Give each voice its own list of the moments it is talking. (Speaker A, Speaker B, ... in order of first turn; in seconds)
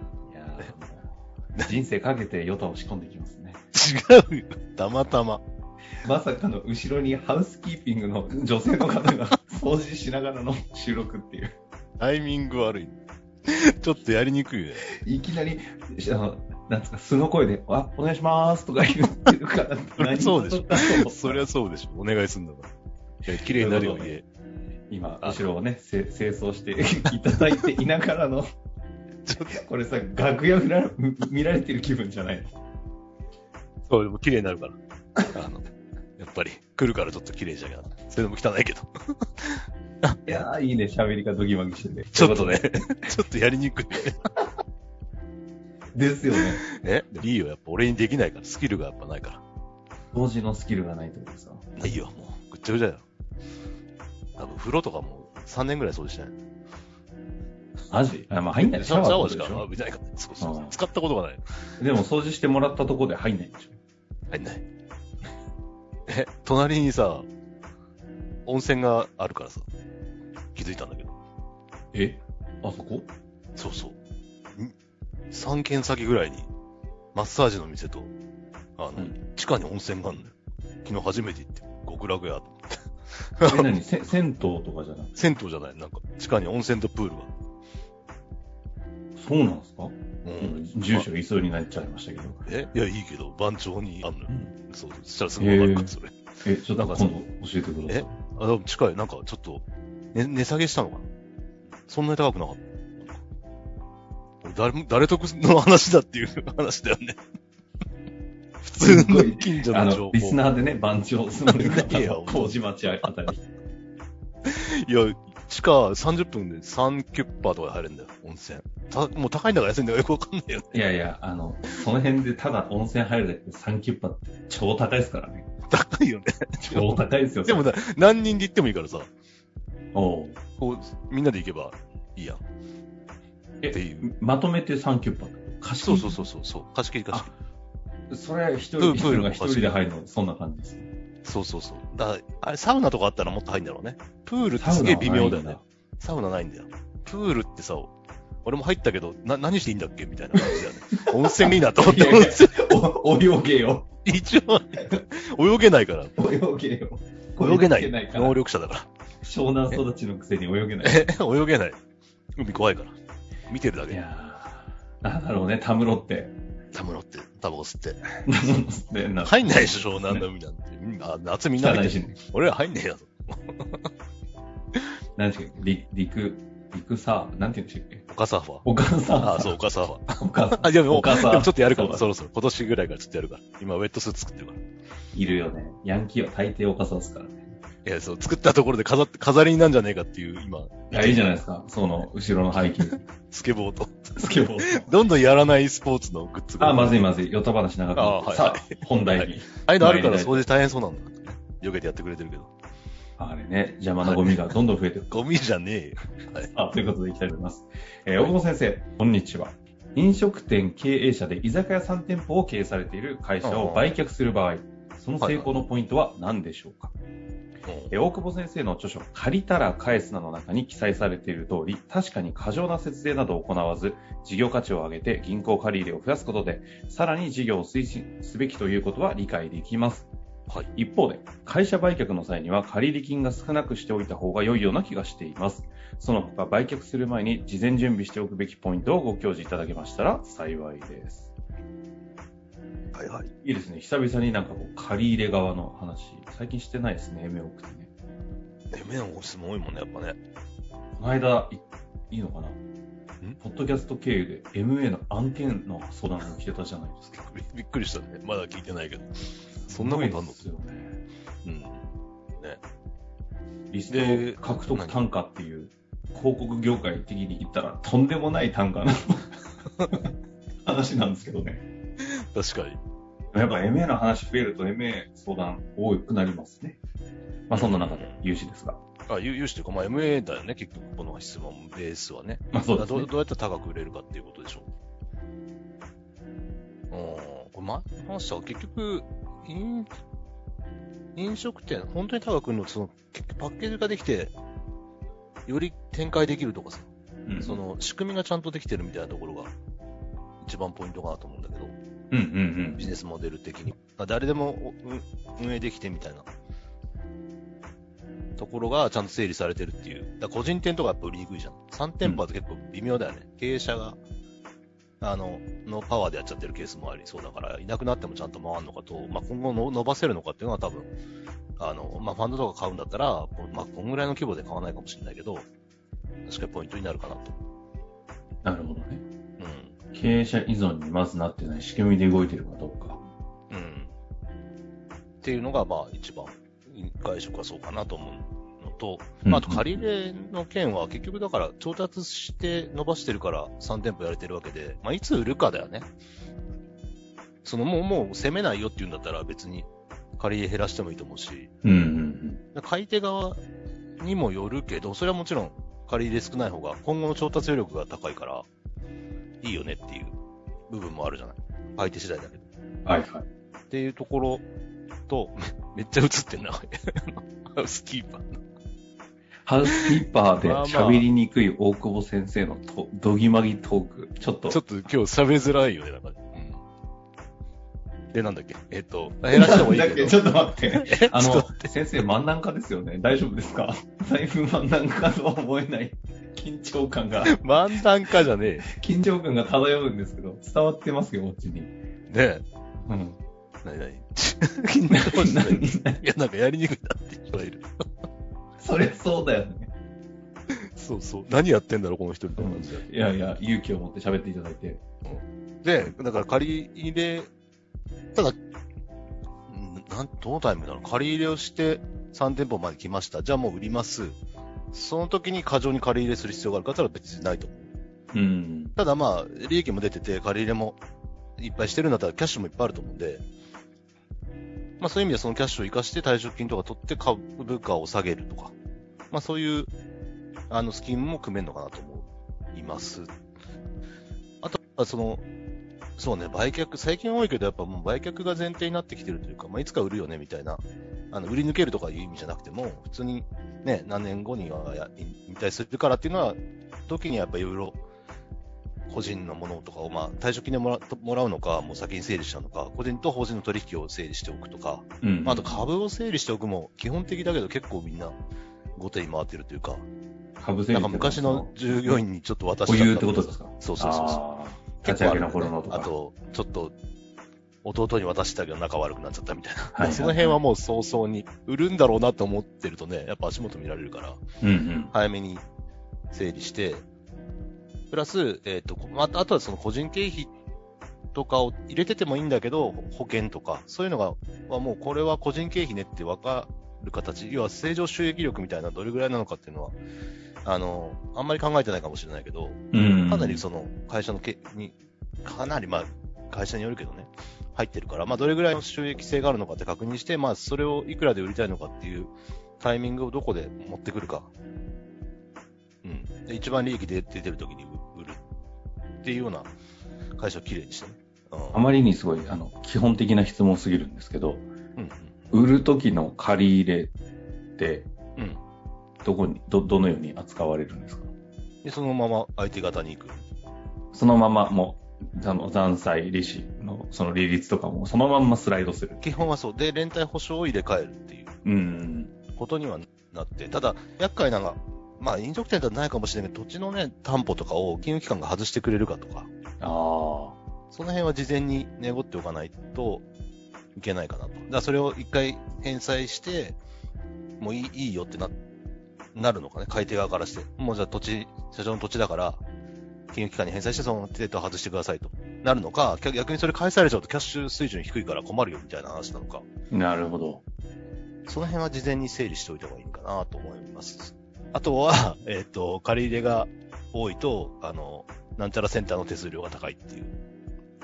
Speaker A: 0.3-1.1, 1.6-3.6, 6.0-11.5, 14.9-21.4, 23.3-24.2, 24.9-28.5, 29.5-32.5, 40.3-42.7, 45.9-46.6, 50.1-51.7, 57.9-59.7, 60.4-60.7, 61.8-63.8, 71.9-73.1, 83.5-85.2, 89.2-92.4, 95.4-95.9, 96.4-98.2, 108.8-113.4, 120.7-125.5, 126.6-127.7, 129.9-130.4, 133.6-136.2, 138.1-140.9, 144.6-145.6, 150.4-153.9, 156.2-158.4, 159.2-161.1, 163.9-166.3, 168.2-170.2, 171.6-172.2, 175.2-178.1, 178.6-179.6, 180.2-182.1, 185.1-187.4, 190.9-193.0, 194.2-194.9, 196.6-200.4, 203.2-205.3, 206.4-216.9, 217.9-230.1, 230.7-241.3, 243.4-247.9, 250.9-252.6, 253.4-257.1, 259.6-261.0, 263.7-270.1, 270.6-271.6, 273.3-276.8, 277.5-278.8, 282.5-283.1, 297.3-297.6, 302.1-302.9, 328.4-329.0, 329.9-333.0, 339.2-339.8, 351.6-352.4, 362.9-363.2, 369.4-374.6, 379.3-387.4, 388.6-391.7, 392.9-393.2, 394.9-396.0, 398.6-399.7, 402.4-404.8, 418.1-418.8, 455.0-455.7, 460.4-462.0, 462.7-465.9, 469.8-470.4, 474.4-474.9, 492.7-493.4, 511.5-514.5, 515.3-516.9, 517.6-517.9, 519.0-521.1, 523.9-529.1, 531.4-532.1, 539.6-540.4, 559.7-560.4
Speaker B: 3.7-5.4, 12.0-14.9, 20.0-22.7, 23.3-24.3, 29.3-29.6, 33.9-34.8, 35.3-35.6, 36.2-40.2, 42.1-44.3, 46.7-49.4, 51.8-53.0, 54.4-56.4, 58.6-61.4, 64.3-64.6, 66.1-67.3, 68.5-69.7, 70.5-71.2, 73.6-74.0, 75.3-76.5, 77.1-78.1, 78.8-83.7, 85.2-87.3, 90.2-91.1, 92.5-96.2, 96.8-97.2, 97.9-101.1, 101.9-103.2, 104.4-107.2, 108.6-110.4, 111.5-113.1, 114.5-120.7, 125.7-129.1, 130.6-132.4, 133.7-134.1, 135.8-137.3, 138.8-139.8, 141.2-147.9, 148.4-152.8, 154.1-156.2, 157.4-158.9, 160.8-161.8, 162.4-163.0, 163.5-164.0, 166.7-168.6, 169.2-173.9, 178.1-178.7, 179.2-184.6, 187.8-191.4, 192.6-194.1, 194.6-197.1, 198.0-202.5, 204.0-204.5, 205.1-206.5, 213.4-214.0, 215.2-215.5, 217.7-217.9, 242.9-243.3, 248.7-250.2, 257.1-260.4, 261.4-262.6, 263.9-265.1, 272.0-272.8, 277.5-278.2, 279.1-284.7, 286.9-290.0, 291.1-294.3, 295.5-299.5, 300.4-301.8, 302.8-306.3, 308.4-314.0, 315.0-320.9, 321.6-325.5, 326.2-327.4, 329.4-329.8, 333.5-333.9, 335.2-345.9, 347.4-351.5, 352.5-353.4, 354.0-358.5, 359.4-360.1, 360.7-362.5, 363.7-364.5, 365.1-368.4, 370.4-371.1, 374.5-376.6, 378.1-381.7, 387.2-388.7, 392.1-392.4, 393.6-397.7, 400.5-402.9, 405.1-407.3, 409.5-414.2, 414.7-417.7, 418.8-420.8, 421.4-423.2, 424.8-428.6, 429.1-429.7, 430.5-433.2, 434.4-435.2, 436.0-447.8, 448.9-458.2, 458.8-459.9, 460.7-464.2, 464.8-466.8, 467.6-474.2, 474.9-475.4, 476.1-476.9, 477.9-480.3, 481.1-489.8, 490.4-504.3, 505.8-508.2, 509.0-509.5, 510.2-511.7, 514.8-515.3, 518.2-518.4, 521.6-523.3, 529.0-531.4, 532.4-539.3, 540.7-543.1, 543.8-546.6, 547.4-548.4, 549.1-552.4, 553.1-559.5, 561.3-570.1